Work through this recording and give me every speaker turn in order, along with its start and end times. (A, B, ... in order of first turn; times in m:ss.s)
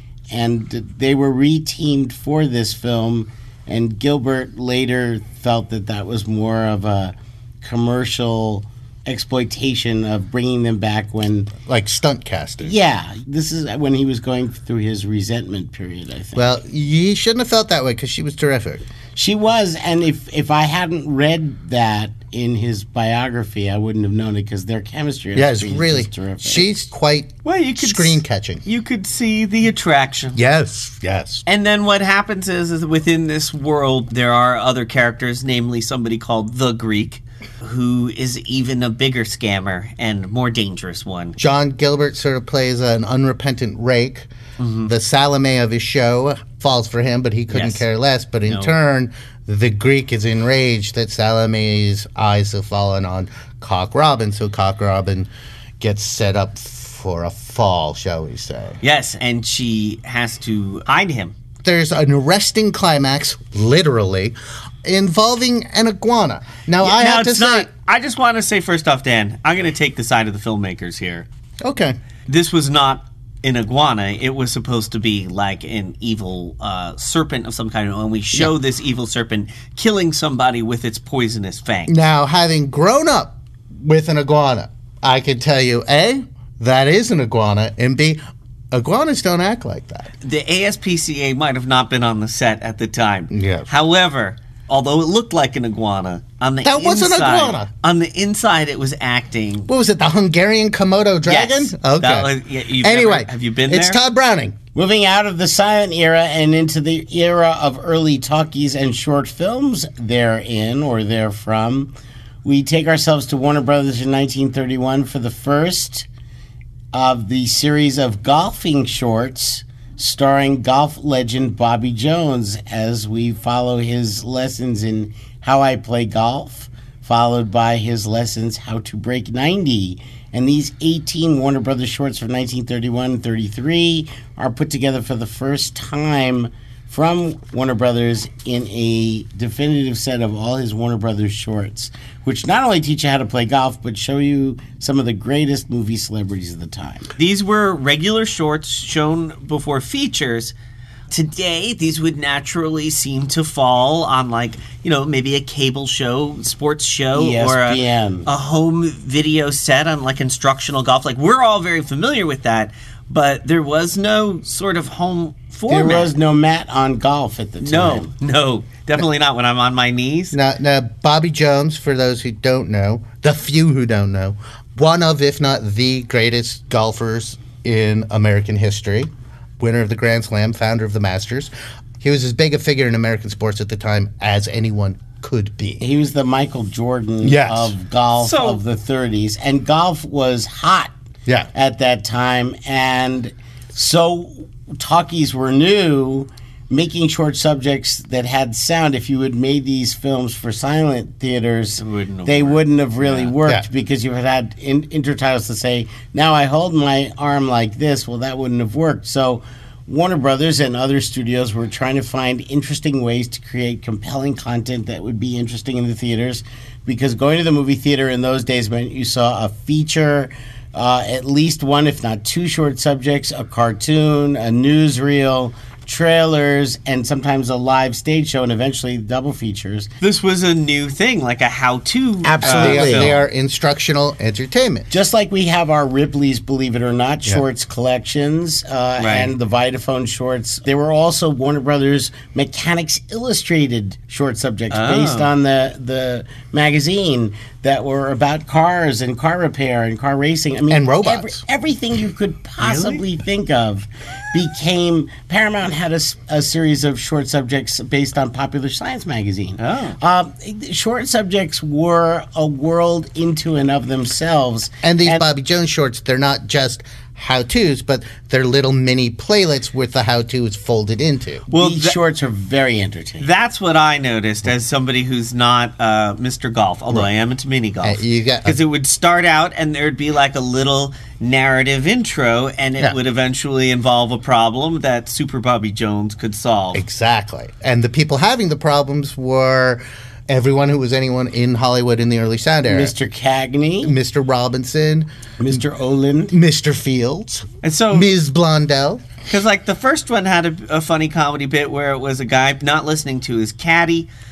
0:00.3-0:11.5 A
0:11.6-0:12.7 B
0:12.6-0:16.5 A
0:16.4-0:18.8 B
0:19.1-0:26.7 A
0:25.3-0:28.6 B
0:27.4-0:30.4 C
0:30.4-0:31.4 B
0:31.5-0:41.4 C
0:41.4-0:44.3 B
0:44.6-0:44.9 C
0:44.8-0:55.3 B
0:47.5-0:47.8 C
0:48.4-0:48.7 C
0:55.8-0:58.8 B
0:58.8-1:01.3 C
1:01.6-1:07.7 B
1:06.8-1:11.2 C
1:11.6-1:11.9 B
1:12.3-1:22.0 C
1:21.9-1:28.2 B
1:28.7-1:30.1 B
1:30.2-1:39.7 C
1:33.3-1:33.7 B
1:36.6-1:37.7 B
1:39.7-1:44.6 B
1:41.2-1:44.0 C
1:44.7-1:51.9 A
1:52.4-1:56.1 A
1:56.9-2:27.1 A
2:27.2-2:30.5 C
2:31.1-2:46.1 C
2:37.1-2:38.3 A
2:45.7-2:48.1 A
2:47.6-2:50.4 C
2:50.3-3:05.8 B
3:05.8-3:10.9 A
3:07.2-3:07.7 B
3:08.2-3:08.6 C
3:11.5-3:49.9 A
3:21.8-3:23.3 C
3:50.0-3:53.2 C
3:52.2-3:53.2 A
3:52.4-3:54.9 B
3:54.9-4:25.2 A
3:59.0-3:59.3 C
4:04.7-4:05.3 C
4:10.7-4:11.4 B
4:12.6-4:13.0 C
4:19.6-4:20.0 C
4:24.8-4:31.4 B
4:31.5-4:32.0 C
4:31.5-4:33.3 A
4:33.2-4:46.8 C
4:37.8-4:38.6 B
4:46.7-4:52.9 B
4:52.7-4:53.9 A
4:53.8-4:55.6 B
4:55.4-4:56.3 A
4:56.3-4:59.0 B
4:57.6-4:58.1 C
4:59.3-5:04.1 C